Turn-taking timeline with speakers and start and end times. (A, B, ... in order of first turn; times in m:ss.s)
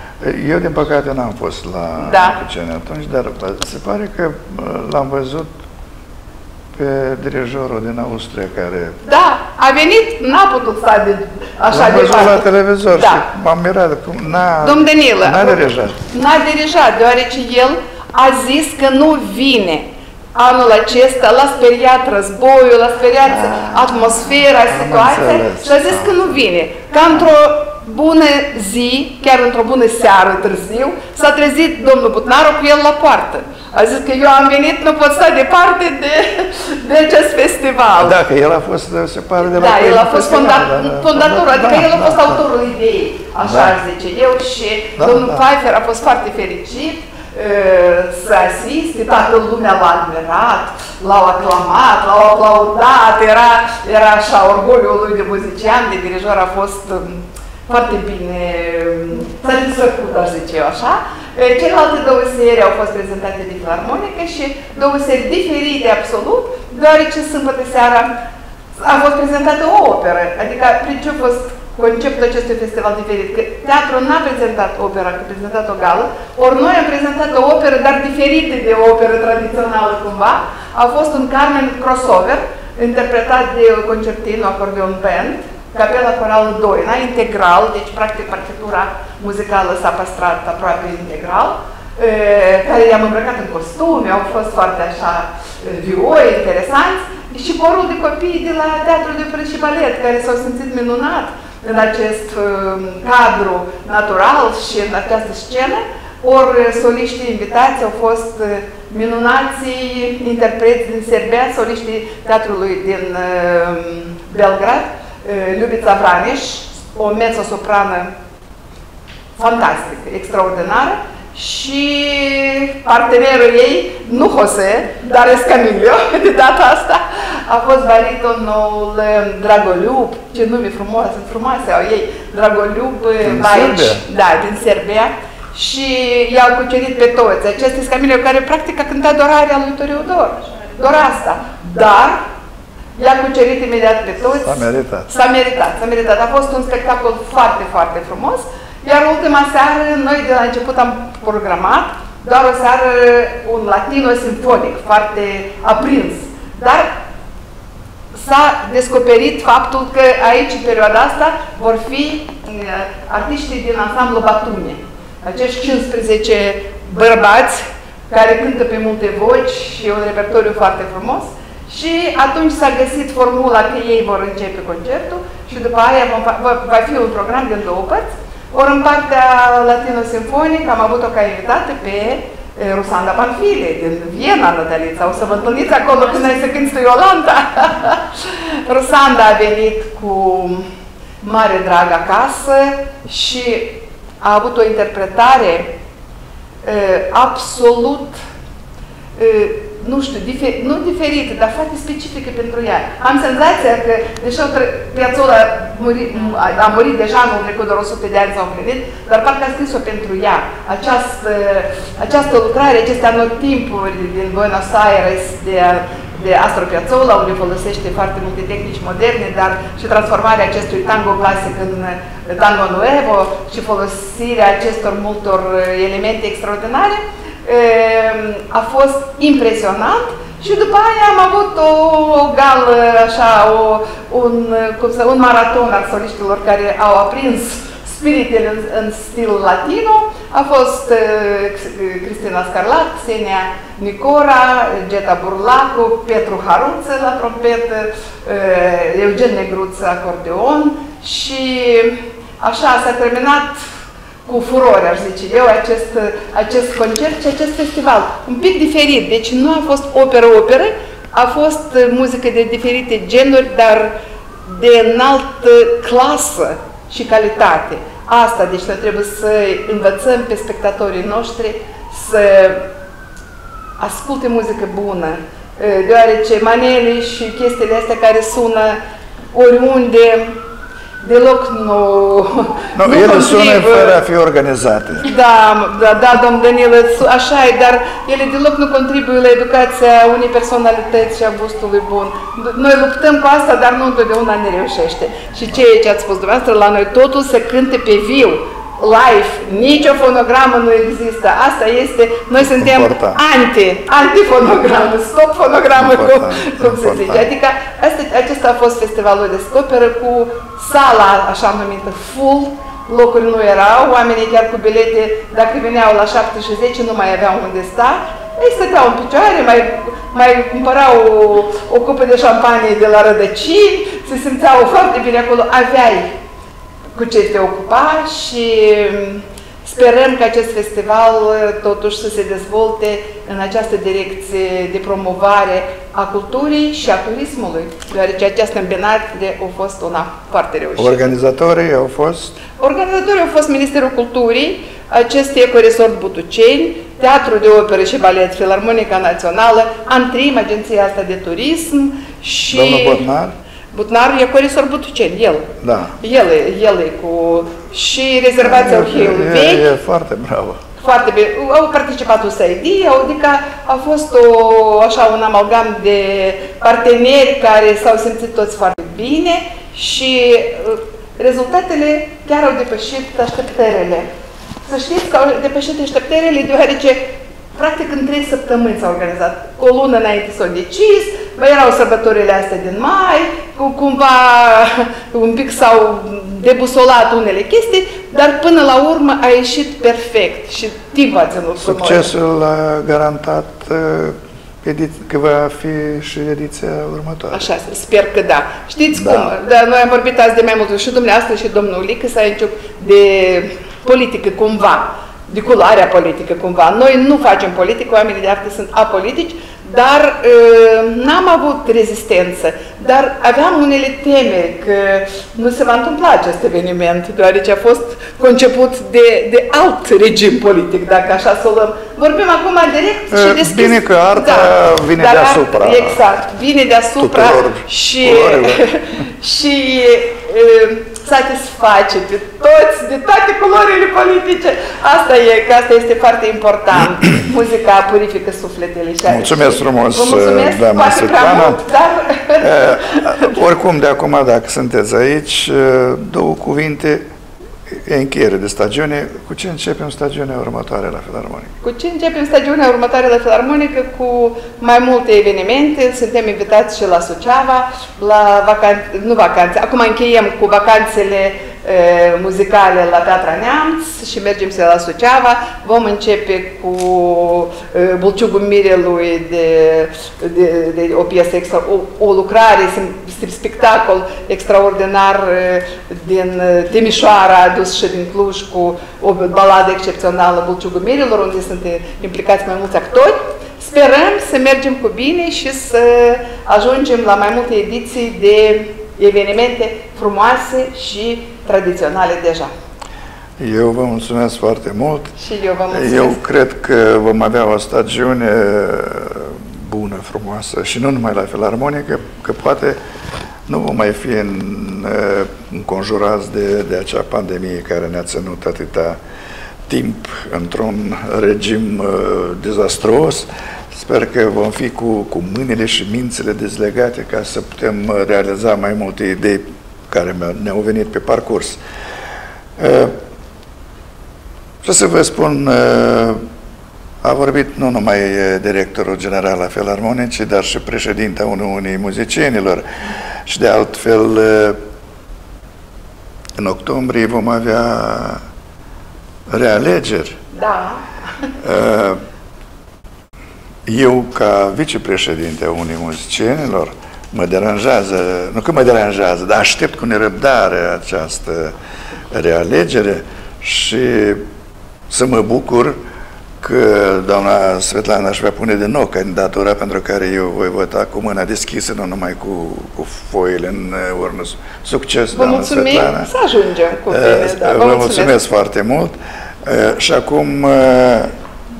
0:00.2-0:05.5 A
0:02.0-0:02.4 B
0:06.8-0:09.0 A
0:09.0-0:13.2 B
0:11.7-0:16.0 A
0:14.6-0:38.2 B
0:23.2-0:26.3 A
0:38.0-0:42.4 A
0:39.5-1:08.1 B
0:43.4-0:43.7 A
0:45.0-0:45.4 A
1:08.8-1:58.1 B
1:59.4-2:22.2 B
2:13.2-2:14.0 A
2:23.0-2:36.9 B
2:24.4-2:25.1 A
2:38.1-3:10.7 B
3:11.2-3:15.7 B
3:16.6-3:18.2 B
3:19.2-4:13.6 B
4:14.2-4:32.6 B
4:33.8-4:38.8 B
4:39.3-4:40.4 B
4:41.0-4:44.0 B
4:42.7-4:45.1 A
4:45.0-5:26.1 B
5:02.4-5:03.2 A
5:05.7-5:07.3 A
5:26.9-5:41.1 B
5:40.8-5:42.4 A
5:42.6-5:53.0 B
5:52.5-5:53.3 A
5:53.7-5:55.5 B
5:55.6-5:55.9 A
5:56.0-5:59.7 B
5:58.4-6:00.6 A
6:00.8-6:14.1 B
6:14.6-6:32.1 B
6:31.6-6:37.4 A
6:37.3-7:23.4 B
6:38.9-6:39.3 A
7:03.1-7:06.0 A
7:07.0-7:08.6 A
7:19.0-7:21.6 A
7:22.4-7:27.0 A
7:27.7-7:31.5 A
7:31.6-8:12.5 B
8:13.4-8:15.1 A
8:15.2-8:16.2 B
8:15.7-8:22.8 A
8:23.5-8:29.0 A
8:29.7-8:41.6 A
8:42.6-8:43.0 A
8:44.6-8:46.2 A
8:47.0-8:52.7 A
8:53.2-8:54.6 A
8:56.4-8:58.2 A
8:59.3-9:00.2 A
9:00.3-9:01.3 B
9:01.4-9:02.0 A
9:03.6-9:11.5 A
9:12.1-9:14.2 A
9:14.9-9:15.8 A
9:16.4-9:26.1 A
9:25.1-9:28.2 B
9:26.9-9:31.1 A